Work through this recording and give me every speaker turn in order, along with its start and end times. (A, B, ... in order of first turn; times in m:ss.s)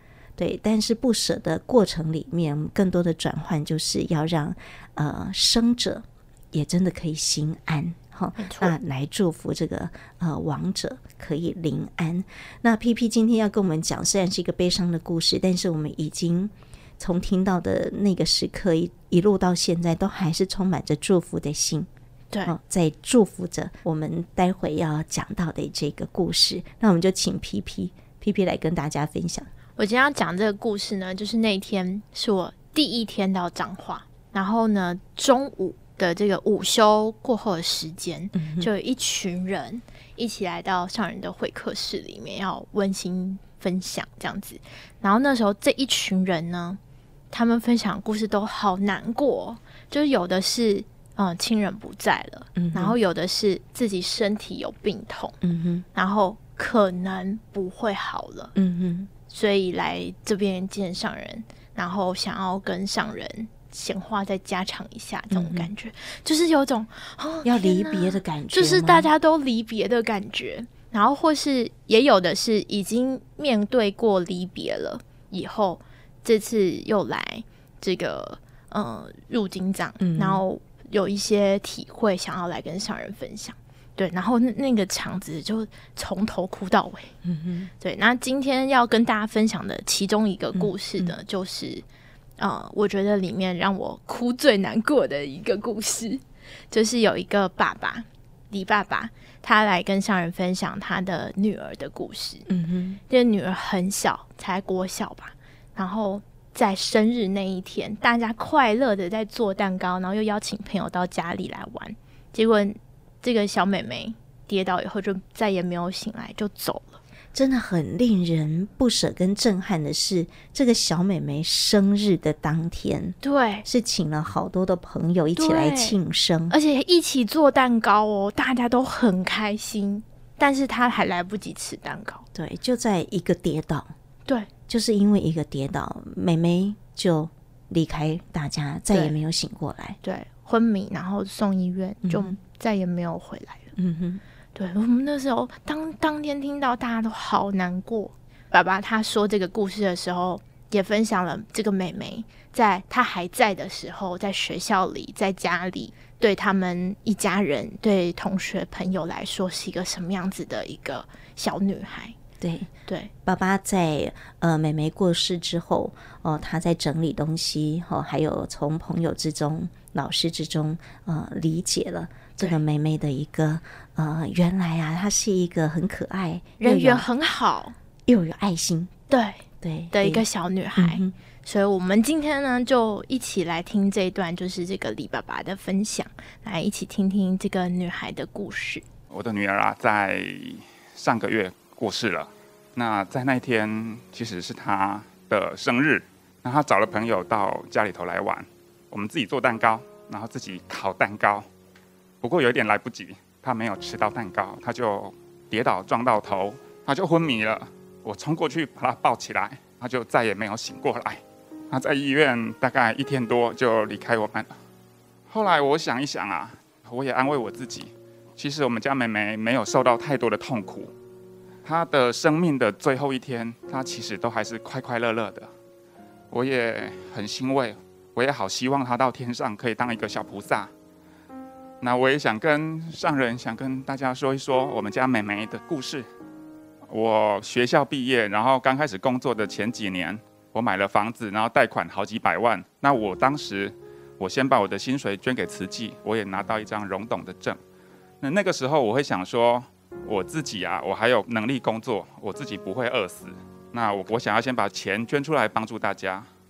0:00.4-0:21.9 A
0:08.4-0:08.7 B
0:22.4-0:29.5 A
0:29.8-0:46.8 B
0:38.3-0:38.7 A
0:47.3-0:55.4 B
0:52.5-0:53.0 A
0:55.4-0:55.8 A
0:56.0-0:58.5 B
0:58.6-0:59.1 A
0:59.2-1:27.1 B
1:05.3-1:05.7 A
1:07.4-1:09.1 A
1:20.0-1:20.4 A
1:27.2-1:27.7 A
1:27.8-1:31.8 B
1:30.6-1:31.2 A
1:32.4-1:42.4 B
1:42.5-1:43.0 A
1:43.1-1:57.0 B
1:57.3-2:06.6 A
2:03.2-2:03.6 B
2:05.4-2:06.0 B
2:06.5-2:12.2 B
2:12.3-2:13.9 A
2:14.7-2:20.0 A
2:20.0-2:23.7 B
2:22.0-2:22.4 A
2:23.8-2:24.2 A
2:24.6-2:42.2 B
2:42.4-2:42.7 A
2:43.2-2:57.1 A
2:56.6-2:57.7 B
2:58.1-2:58.9 A
2:59.1-3:08.8 B
2:59.6-3:01.2 A
3:09.1-3:21.4 C
3:22.2-3:34.5 C
3:35.3-3:40.9 C
3:41.6-3:45.5 C
3:46.3-3:50.7 C
3:51.8-3:56.1 C
3:56.9-4:07.6 C
4:08.2-4:16.3 C